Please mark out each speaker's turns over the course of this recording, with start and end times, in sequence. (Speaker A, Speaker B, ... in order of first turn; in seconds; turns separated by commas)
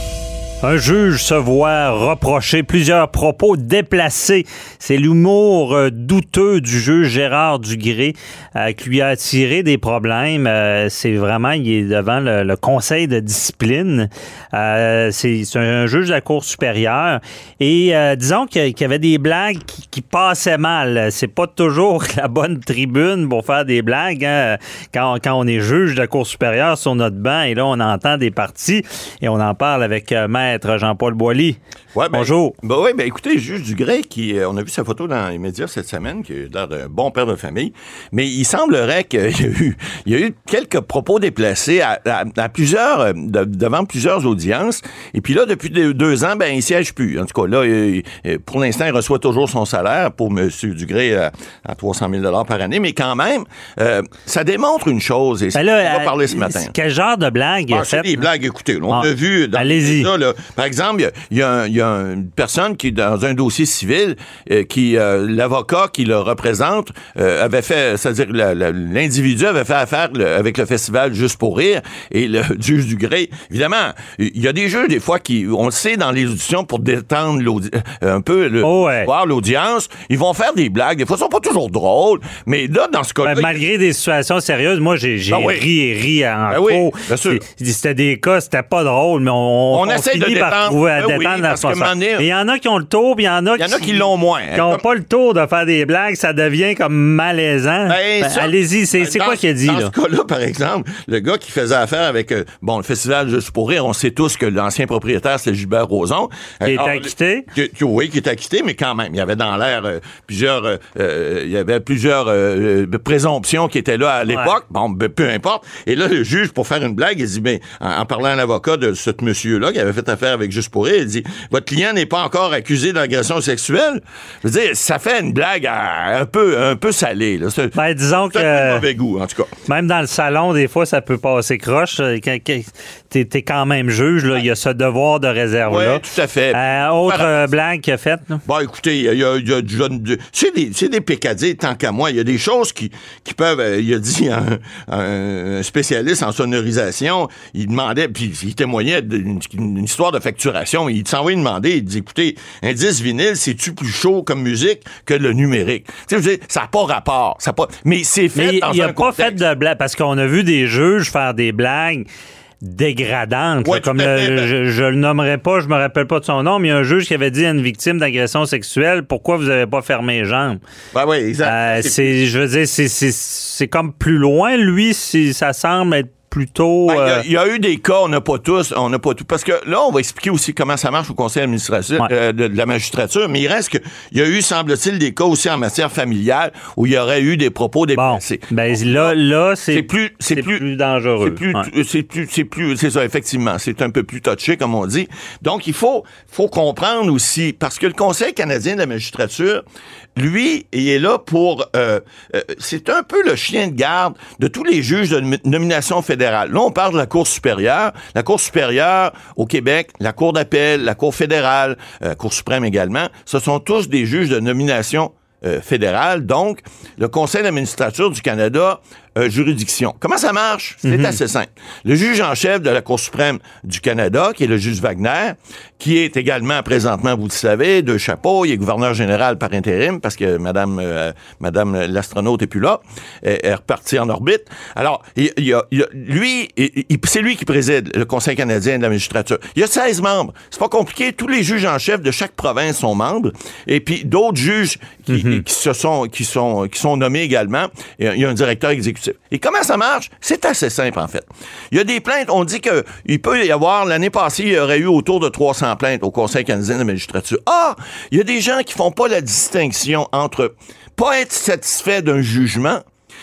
Speaker A: 0.6-31.6, Speaker B: 31.9-56.7, Speaker A: 32.1-32.6, Speaker A: 55.5-58.1, Speaker B: 57.7-83.6, Speaker A: 58.9-60.1, Speaker A: 78.6-79.1, Speaker A: 83.2-99.9, Speaker B: 85.3-85.7, Speaker B: 86.5-87.4, Speaker B: 89.7-92.3, Speaker B: 93.6-94.8, Speaker B: 97.9-129.5, Speaker A: 106.7-107.5, Speaker A: 127.7-128.9, Speaker A: 129.7-138.4, Speaker B: 135.7-137.5, Speaker B: 138.4-159.4, Speaker A: 158.3-162.1, Speaker A: 162.6-170.6, Speaker B: 163.7-164.5, Speaker B: 170.9-172.2, Speaker A: 171.4-177.2, Speaker B: 176.9-189.2, Speaker A: 187.9-191.7, Speaker B: 189.7-190.7, Speaker B: 191.2-199.6, Speaker B: 200.2-262.8, Speaker A: 220.8-221.2, Speaker A: 245.1-245.4